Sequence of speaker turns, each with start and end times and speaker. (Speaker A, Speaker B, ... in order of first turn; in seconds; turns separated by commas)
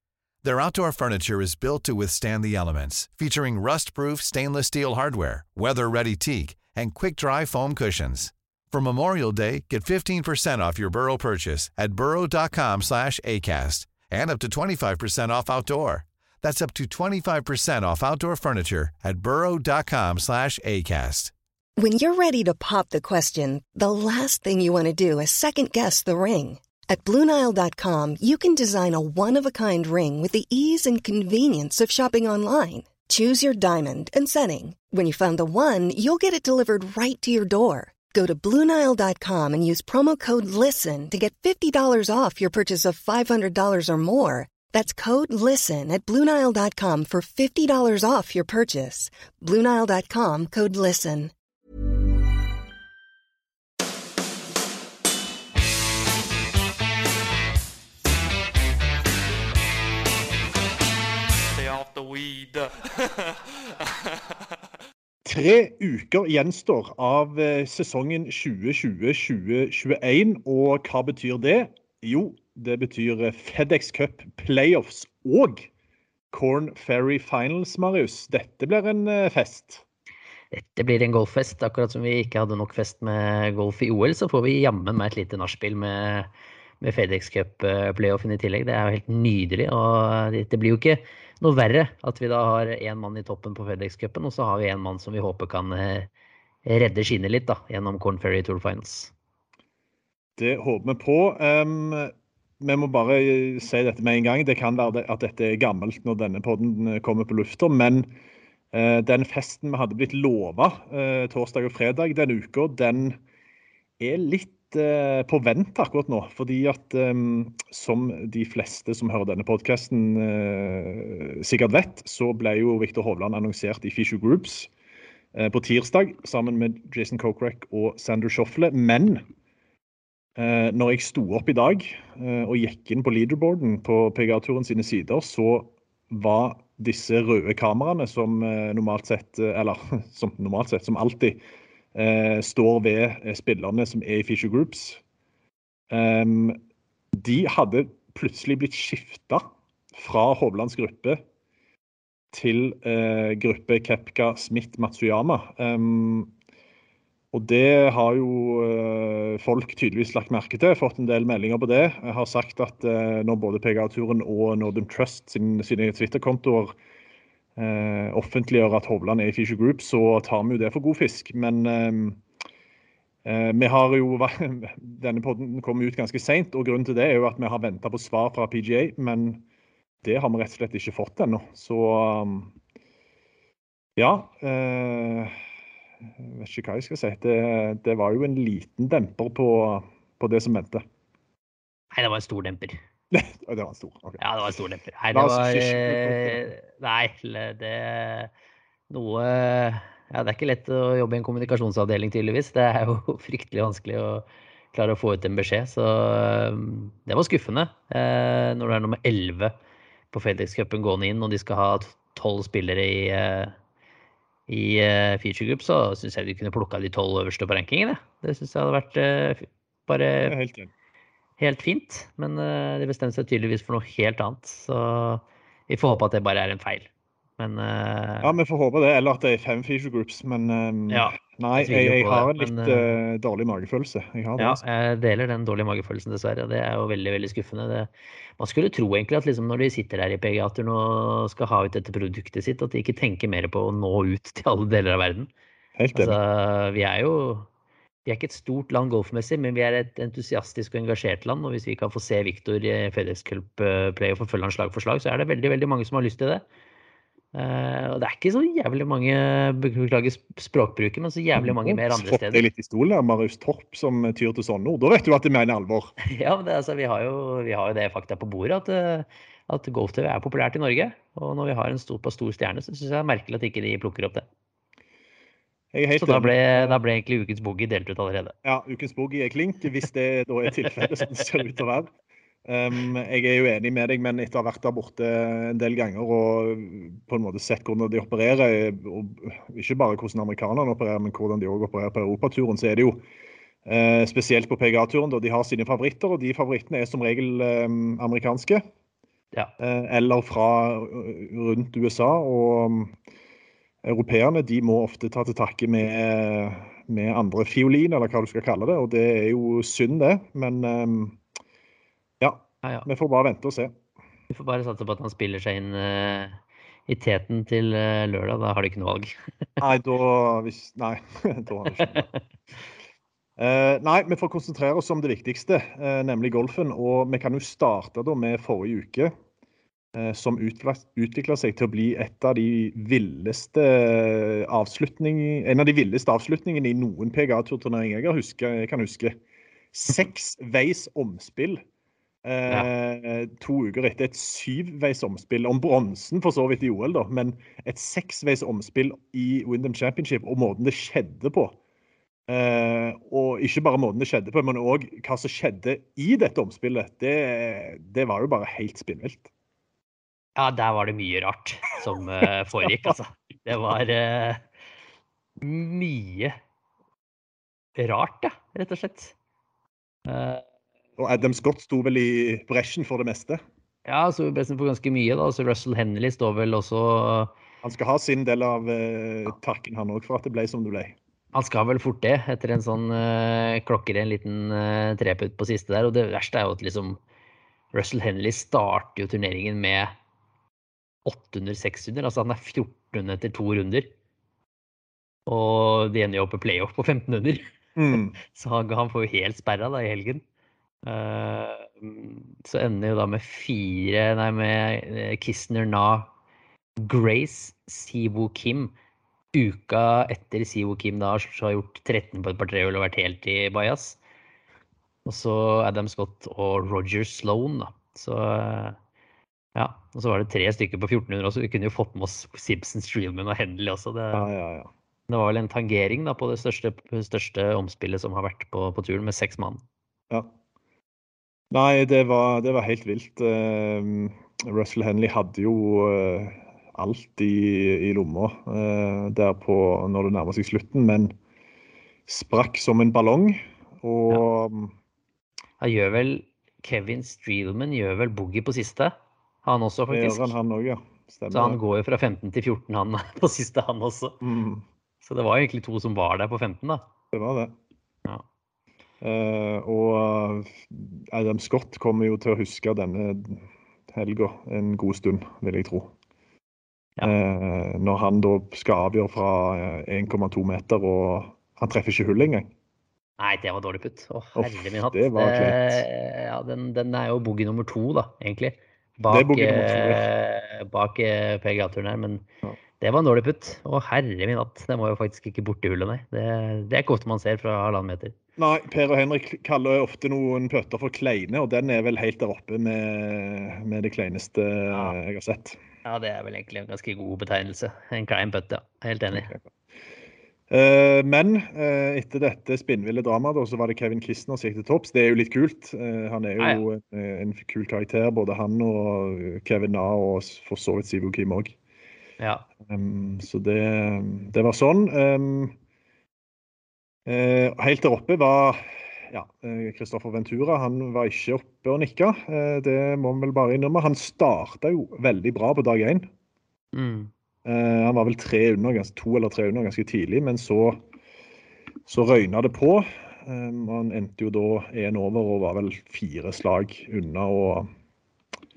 Speaker A: 0.4-21.3, Speaker B: 21.8-51.3, Speaker C: 61.5-64.6, Speaker D: 65.2-75.7, Speaker D: 76.3-79.8, Speaker E: 80.5-86.3, Speaker E: 86.8-96.1, Speaker E: 96.7-99.1, Speaker D: 100.4-108.1, Speaker D: 108.7-113.2, Speaker D: 114.0-124.7, Speaker D: 125.3-129.3, Speaker D: 130.4-141.4, Speaker D: 141.9-145.0, Speaker D: 145.9-146.6, Speaker D: 147.1-151.2, Speaker D: 152.3-156.3, Speaker D: 157.3-166.8, Speaker D: 167.6-172.2, Speaker D: 173.2-179.4, Speaker D: 180.0-182.6, Speaker D: 184.0-185.3, Speaker D: 186.2-190.8, Speaker E: 191.9-192.8, Speaker D: 193.1-194.2, Speaker E: 194.2-198.3, Speaker D: 195.1-196.5, Speaker E: 198.9-209.5, Speaker E: 210.1-213.6, Speaker E: 214.5-220.3, Speaker D: 220.2-220.7, Speaker E: 221.4-226.9, Speaker E: 227.4-228.3, Speaker D: 228.2-234.6, Speaker E: 230.9-232.9, Speaker E: 234.4-245.3, Speaker D: 245.8-246.2, Speaker E: 245.9-247.5, Speaker E: 248.1-256.4, Speaker E: 257.3-262.5, Speaker D: 261.4-265.9, Speaker E: 266.0-274.2, Speaker D: 275.7-276.8, Speaker E: 275.9-278.4, Speaker D: 278.4-281.9, Speaker D: 282.4-293.0, Speaker D: 293.6-298.6, Speaker D: 299.6-303.0, Speaker D: 303.8-311.2, Speaker D: 312.2-313.8, Speaker E: 314.3-319.6, Speaker D: 319.6-322.1, Speaker E: 321.9-322.2, Speaker D: 323.4-329.1, Speaker D: 329.9-339.2, Speaker D: 339.7-341.6, Speaker D: 342.2-351.6, Speaker D: 352.3-359.3, Speaker E: 360.4-364.4, Speaker E: 365.4-366.4, Speaker E: 367.8-369.1, Speaker E: 370.1-370.4, Speaker D: 371.0-373.4, Speaker E: 373.9-377.3, Speaker D: 377.6-381.0, Speaker E: 381.3-387.0, Speaker E: 387.7-389.9, Speaker E: 391.1-393.9, Speaker E: 395.3-400.2, Speaker D: 397.8-398.2, Speaker E: 400.9-406.1, Speaker E: 406.8-408.7, Speaker E: 409.3-414.0, Speaker E: 415.1-418.8, Speaker E: 419.6-424.3, Speaker D: 424.1-424.7, Speaker E: 425.1-429.6, Speaker D: 431.5-441.1, Speaker D: 442.1-444.8, Speaker E: 445.6-450.3, Speaker D: 449.9-451.6, Speaker E: 451.3-454.2, Speaker D: 454.2-454.6, Speaker E: 455.0-456.8, Speaker D: 457.1-457.6, Speaker D: 459.0-465.9, Speaker D: 467.0-472.5, Speaker E: 473.2-482.2, Speaker D: 474.4-475.9, Speaker D: 479.1-480.1, Speaker E: 482.8-488.1, Speaker D: 488.4-495.6, Speaker E: 494.7-494.9, Speaker E: 495.9-499.3, Speaker D: 499.1-499.5, Speaker D: 500.5-511.6, Speaker E: 512.2-512.5, Speaker D: 512.7-515.6, Speaker D: 517.1-526.1, Speaker E: 526.7-527.1, Speaker D: 527.5-530.8, Speaker D: 531.9-537.7